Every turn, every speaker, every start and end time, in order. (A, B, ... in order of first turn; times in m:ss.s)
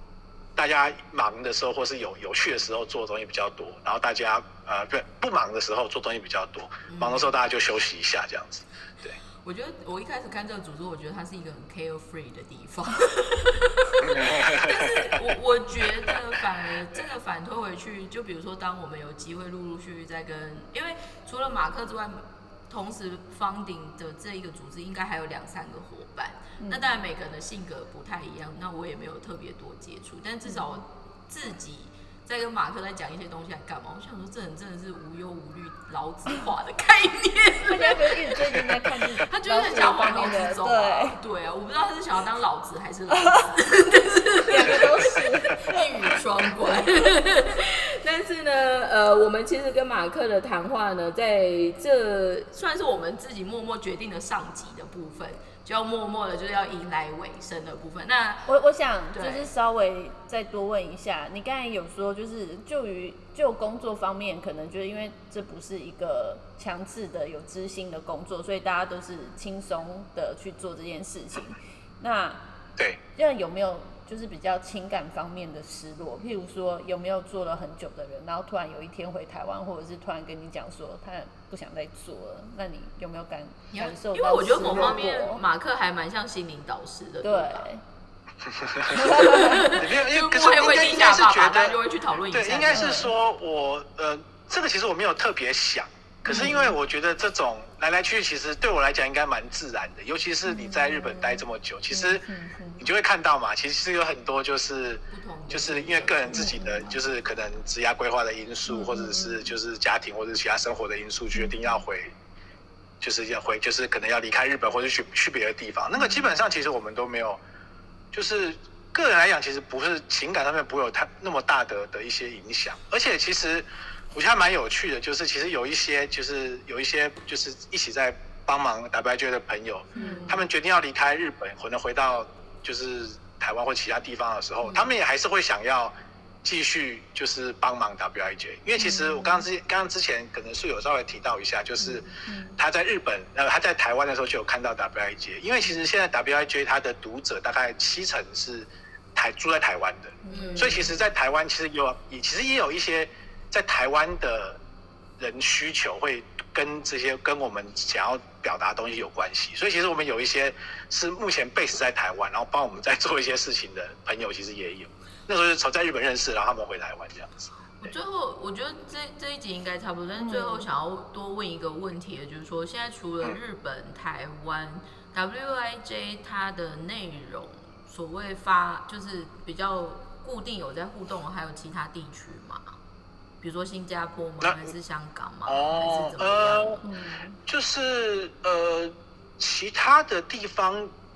0:00.6-0:09.2 A
0:06.9-0:07.3 B
0:09.4-0:38.6 B
0:14.0-0:15.2 A
0:26.6-0:26.9 C
0:30.4-0:30.8 C
0:37.7-0:41.2 C
0:39.2-0:58.5 B
0:43.2-0:43.5 C
0:44.5-0:45.8 C
0:58.5-1:12.4 C
0:59.1-0:59.5 B
1:13.2-1:25.4 C
1:23.7-1:27.7 B
1:27.2-1:27.8 C
1:28.5-1:42.2 A
1:28.9-1:32.9 B
1:29.0-1:29.7 C
1:32.7-1:33.1 C
1:36.3-1:36.7 C
1:36.3-1:36.8 B
1:40.4-1:42.8 C
1:42.8-1:52.2 A
1:45.1-1:47.1 B
1:46.3-1:46.7 C
1:48.7-1:49.5 C
1:53.0-1:57.4 A
1:58.1-2:15.9 A
2:10.0-2:10.4 C
2:10.0-2:10.4 B
2:16.4-2:34.6 A
2:18.8-2:19.3 C
2:21.8-2:22.6 C
2:30.2-2:30.8 C
2:30.3-2:31.0 B
2:35.2-2:47.9 A
2:47.8-3:02.7 B
2:50.2-2:50.7 C
3:03.4-3:06.8 B
3:04.4-3:04.7 A
3:05.5-3:06.8 A
3:06.8-3:07.4 C
3:07.5-3:10.9 A